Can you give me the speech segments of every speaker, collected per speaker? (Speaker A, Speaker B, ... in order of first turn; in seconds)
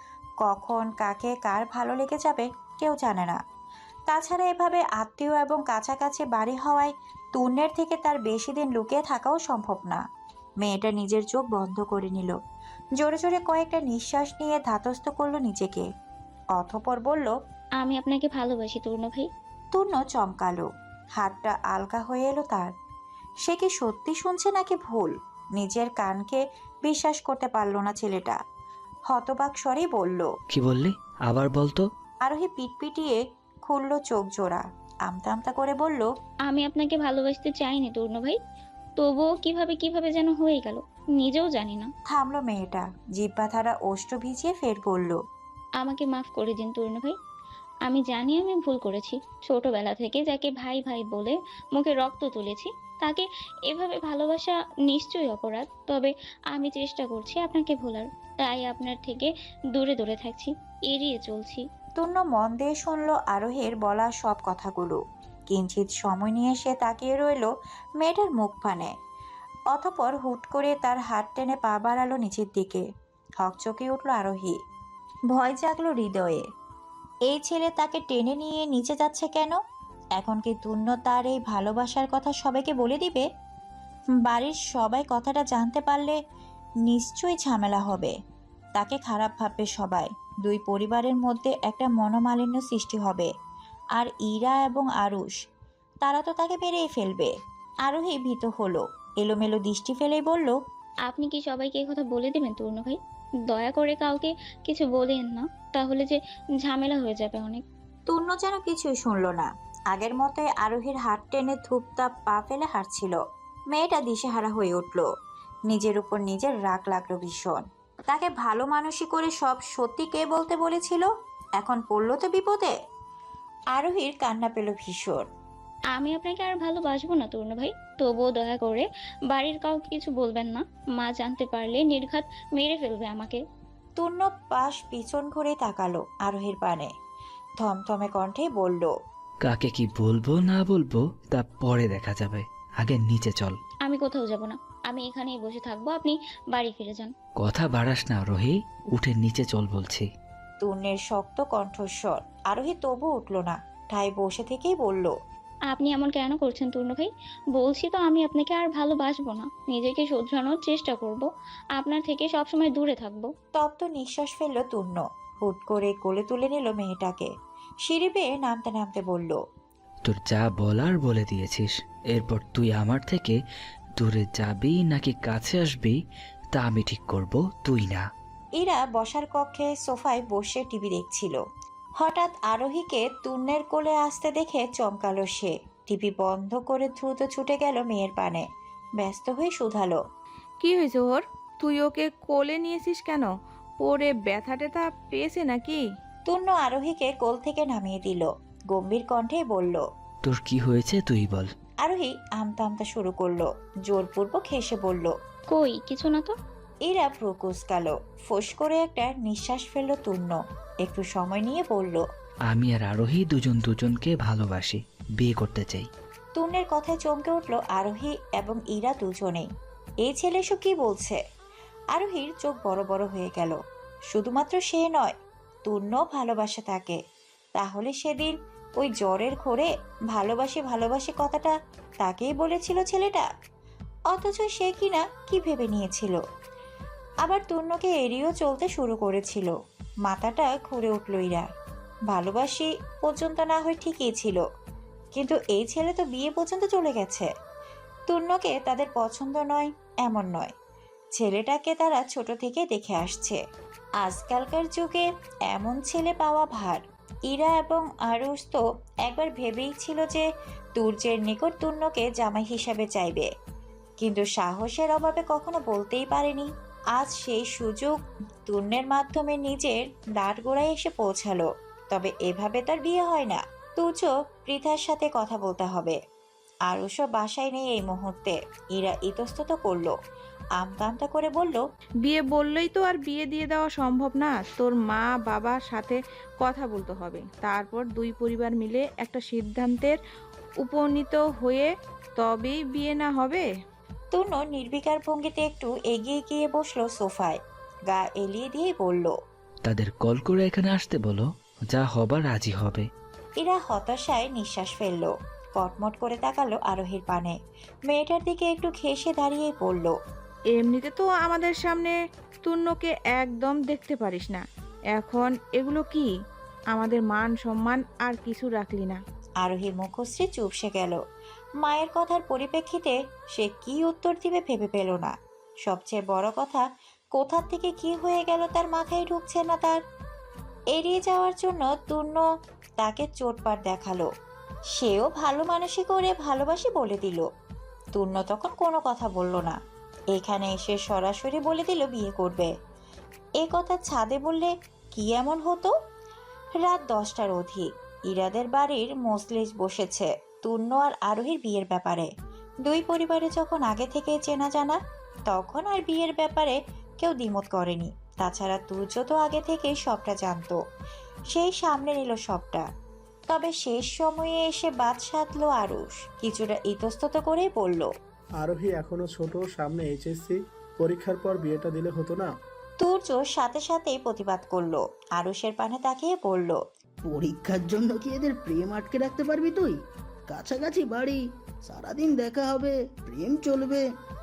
Speaker A: 0.4-3.4, 4.1-10.0, 10.6-12.4, 13.0-15.9, 16.5-17.3, 19.7-22.7, 23.4-28.4, 29.1-30.3, 32.2-36.1, 42.1-45.2, 62.0-68.9, 69.7-72.8, 73.4-74.5, 75.3-76.4, 77.3-79.6, 80.2-83.2, 84.2-86.2, 86.8-88.1, 88.8-93.3, 94.0-95.3, 96.0-97.3, 97.8-100.5, 108.1-113.2, 113.7-115.1, 115.7-122.7, 123.7-125.2, 134.0-136.9, 137.6-138.9, 150.6-155.1, 163.6-167.3, 167.8-169.4, 178.6-181.4, 182.0-188.4, 189.0-190.0, 196.3-199.8, 201.8-205.1, 206.8-212.0, 216.3-219.5, 220.0-221.2, 221.9-223.6, 224.1-225.1, 225.7-227.0, 227.6-233.2, 234.1-236.2, 237.2-239.5, 240.1-241.5, 242.1-244.4, 245.1-247.3, 248.1-250.5, 251.2-253.4, 254.0-263.3, 264.0-276.0, 276.7-279.9, 280.6-281.6, 294.1-297.4, 297.9-299.1, 303.4-307.3, 307.9-309.9, 319.4-321.0, 321.6-325.1, 325.6-329.8, 330.7-332.2, 332.8-334.1, 334.8-337.2, 337.9-339.6, 340.1-342.5, 343.4-345.7, 346.6-352.1, 352.6-360.6, 361.3-362.6, 363.3-367.9, 372.8-376.6
Speaker B: 17.8-19.3, 36.5-38.4, 39.0-41.9, 45.8-47.1, 47.8-61.6, 101.1-103.0, 103.5-107.6, 125.9-133.4, 143.8-147.1, 155.7-163.3, 205.5-206.3
Speaker C: 30.5-31.9, 139.4-143.6, 147.4-150.0, 170.1-173.4, 174.0-176.0, 176.5-178.0, 200.2-201.5, 212.5-215.9, 299.6-302.9
Speaker D: 190.6-195.8, 282.0-290.0, 290.6-293.4, 310.5-316.1, 316.7-319.0
Speaker E: 368.4-372.3
Speaker F: 377.0-379.8, 380.3-383.8